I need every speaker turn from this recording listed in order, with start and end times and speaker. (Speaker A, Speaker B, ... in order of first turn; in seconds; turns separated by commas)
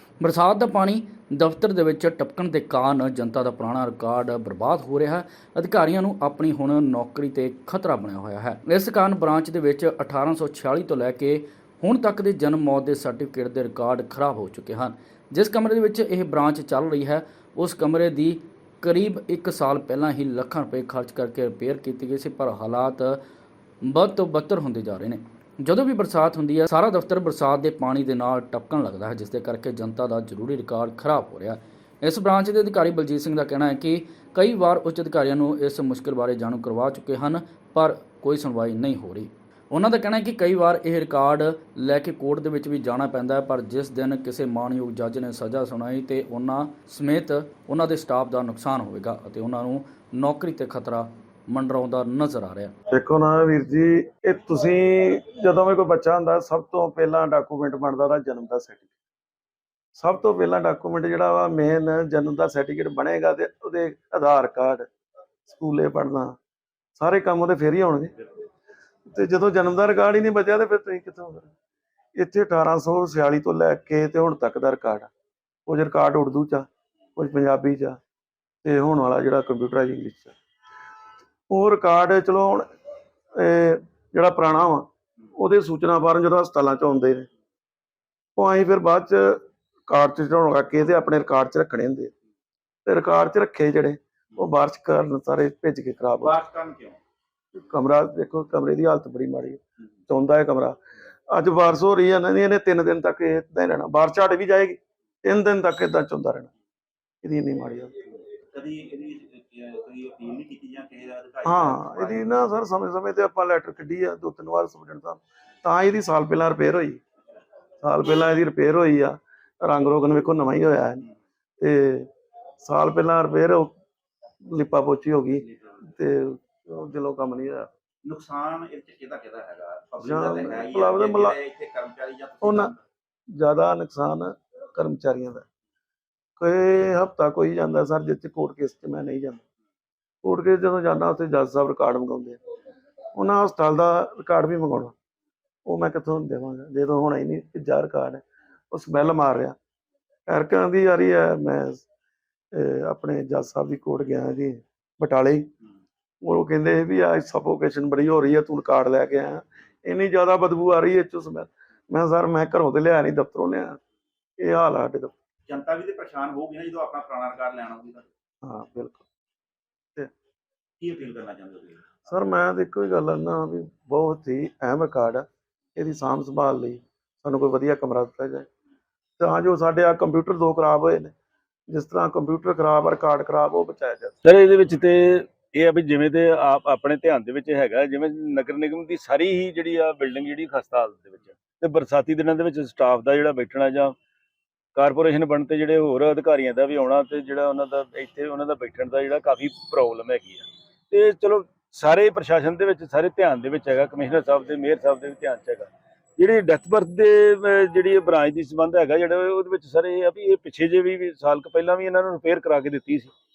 Speaker A: 0.2-23.2, Speaker A: 23.8-52.7, Speaker B: 52.9-58.9, Speaker B: 60.0-64.9, Speaker B: 65.5-66.4, Speaker B: 67.0-68.1, Speaker B: 69.1-71.5, Speaker B: 72.2-75.1, Speaker B: 75.7-78.0, Speaker B: 78.6-80.3, Speaker B: 81.5-82.7, Speaker B: 83.3-87.3, Speaker B: 88.3-92.1, Speaker B: 92.8-96.4, Speaker C: 96.2-97.0, Speaker B: 97.5-100.8, Speaker B: 101.3-106.5, Speaker B: 107.2-107.9, Speaker C: 108.5-112.3, Speaker B: 111.4-117.0, Speaker B: 117.8-121.1, Speaker B: 121.6-122.1, Speaker B: 122.6-123.7, Speaker B: 124.5-127.7, Speaker C: 128.0-132.8, Speaker B: 130.0-131.4, Speaker B: 132.4-132.7, Speaker B: 133.3-135.4, Speaker B: 136.4-139.4, Speaker B: 140.2-142.4, Speaker B: 143.1-144.9, Speaker B: 145.7-149.6, Speaker B: 150.3-151.8, Speaker B: 152.5-155.5, Speaker B: 156.2-163.8, Speaker B: 164.4-165.1, Speaker C: 165.5-168.1, Speaker B: 168.4-169.0, Speaker C: 170.8-172.0, Speaker B: 172.1-175.2, Speaker B: 175.8-178.5, Speaker B: 179.2-181.1, Speaker B: 181.7-184.2, Speaker D: 184.2-193.9, Speaker D: 194.7-213.1